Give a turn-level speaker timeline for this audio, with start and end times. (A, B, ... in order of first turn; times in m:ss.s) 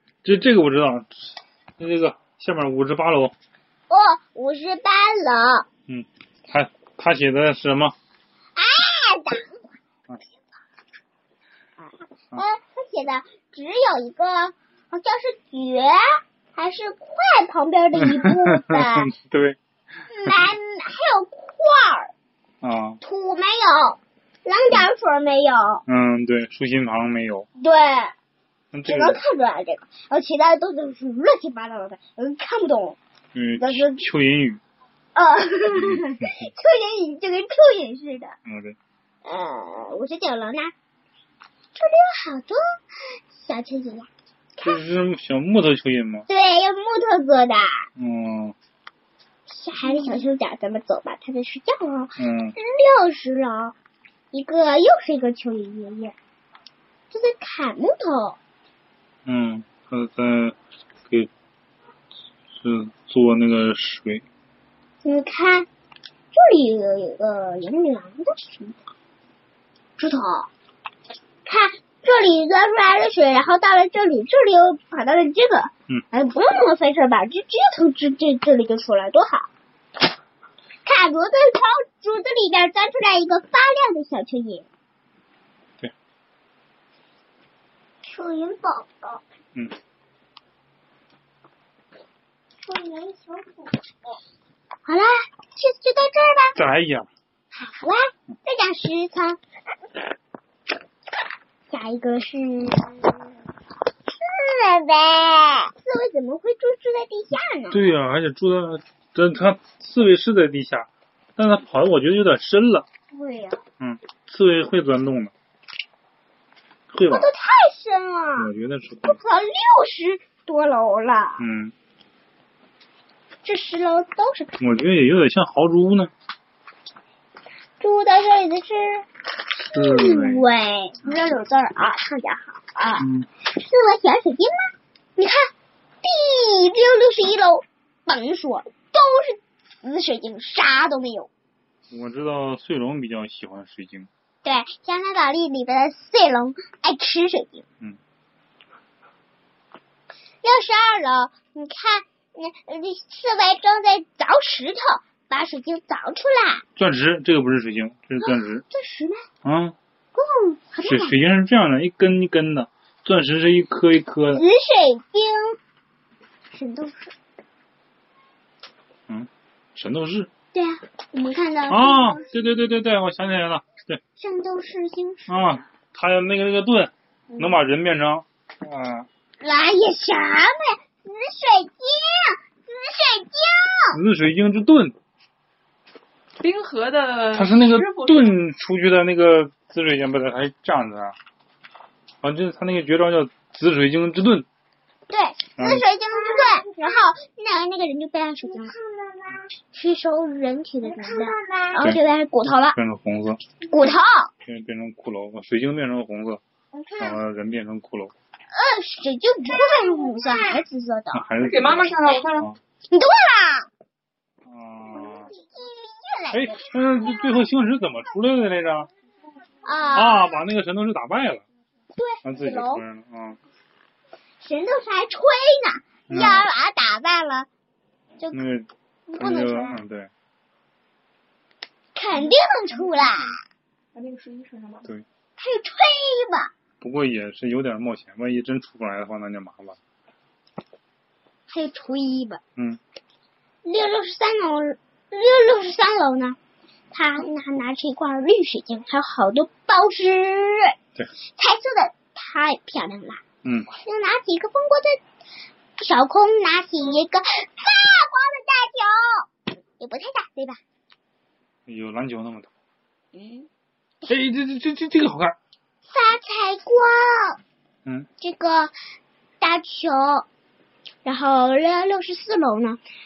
0:00.2-0:03.4 A
0:03.9-0:05.7 B
0:05.9-0:08.0 A
0:08.6-0:09.6 B
0:11.8-0:19.1 B
0:18.0-0:19.6 A
0:20.1-0:22.1 B
0:22.6-0:23.0 A
0:23.0-0:25.8 B
0:25.9-0:27.5 A
0:27.6-0:28.1 B
0:28.7-0:29.2 A
0:28.8-0:33.0 B
0:33.3-0:34.6 A
0:33.6-0:34.0 B
0:35.2-0:38.4 B
0:35.7-0:36.5 A
0:38.5-0:38.8 A
0:39.2-0:40.7 B
0:41.8-0:42.6 B
0:43.3-0:44.1 B
0:44.6-0:46.3 A
0:46.3-0:47.9 B
0:48.0-0:48.6 A
0:49.5-0:53.8 B
0:52.2-0:52.6 A
0:54.3-0:56.2 B
0:57.1-0:58.4 B
0:59.3-1:01.3 A
1:02.6-1:04.2 A
1:05.0-1:05.7 B
1:06.3-1:08.8 B
1:10.0-1:10.5 B
1:11.4-1:19.5 B
1:20.8-1:24.7 B
1:28.0-1:29.2 B
1:32.6-1:33.9 B
1:34.8-1:36.6 B
1:36.6-1:37.1 A
1:37.5-1:39.4 B
1:41.7-1:43.3 B
1:44.1-1:47.8 B
1:47.7-1:52.9 A
1:53.1-1:53.6 B
1:53.8-1:55.3 A
1:56.9-1:57.3 A
1:57.1-1:58.5 B
1:58.4-1:59.2 A
1:59.0-2:01.4 B
2:01.4-2:01.7 A
2:03.4-2:04.6 B
2:04.6-2:06.1 A
2:07.8-2:09.1 B
2:09.7-2:15.5 B
2:09.7-2:10.4 A
2:13.0-2:13.3 A
2:16.0-2:21.3 B
2:21.9-2:24.1 A
2:24.4-2:27.6 B
2:30.4-2:36.6 B
2:36.8-2:38.6 A
2:38.2-2:39.2 B
2:39.4-2:39.8 A
2:40.2-2:41.2 B
2:40.8-2:44.4 A
2:44.4-2:45.6 B
2:46.5-2:47.1 B
2:49.1-2:50.3 A
2:50.5-2:52.2 B
2:51.7-2:54.0 A
2:54.2-2:55.6 B
2:55.3-2:59.1 A
2:59.4-3:04.0 B
3:03.9-3:05.0 A
3:06.4-3:08.4 C
3:07.3-3:11.2 A
3:12.2-3:14.5 A
3:15.1-3:18.8 B
3:15.6-3:15.9 A
3:19.7-3:22.8 B
3:21.8-3:23.4 A
3:23.7-3:24.3 B
3:24.4-3:26.4 A
3:26.7-3:27.2 B
3:27.0-3:28.1 A
3:28.5-3:31.3 B
3:31.1-3:32.6 A
3:31.4-3:32.5 C
3:32.9-3:33.7 B
3:34.4-3:35.3 A
3:35.0-3:37.4 B
3:36.3-3:38.9 A
3:39.6-3:40.4 B
3:39.9-3:41.4 A
3:42.0-3:42.8 B
3:42.2-3:43.4 A
3:44.4-3:47.5 B
3:46.1-3:46.5 A
3:48.3-3:50.1 A
3:49.1-3:49.8 B
3:52.0-3:53.4 B
3:52.8-3:53.3 C
3:53.9-3:54.9 C
3:55.4-3:56.5 B
3:56.8-3:59.8 A
4:01.5-4:02.4 B
4:03.6-4:06.4 B
4:06.9-4:10.7 B
4:11.4-4:13.2 B
4:13.7-4:15.0 B
4:15.8-4:19.3 B
4:19.8-4:20.6 B
4:21.7-4:22.5 A
4:23.1-4:23.5 B
4:24.1-4:25.4 A
4:25.9-4:27.4 B
4:28.2-4:28.7 B
4:29.4-4:30.3 B
4:31.0-4:32.8 B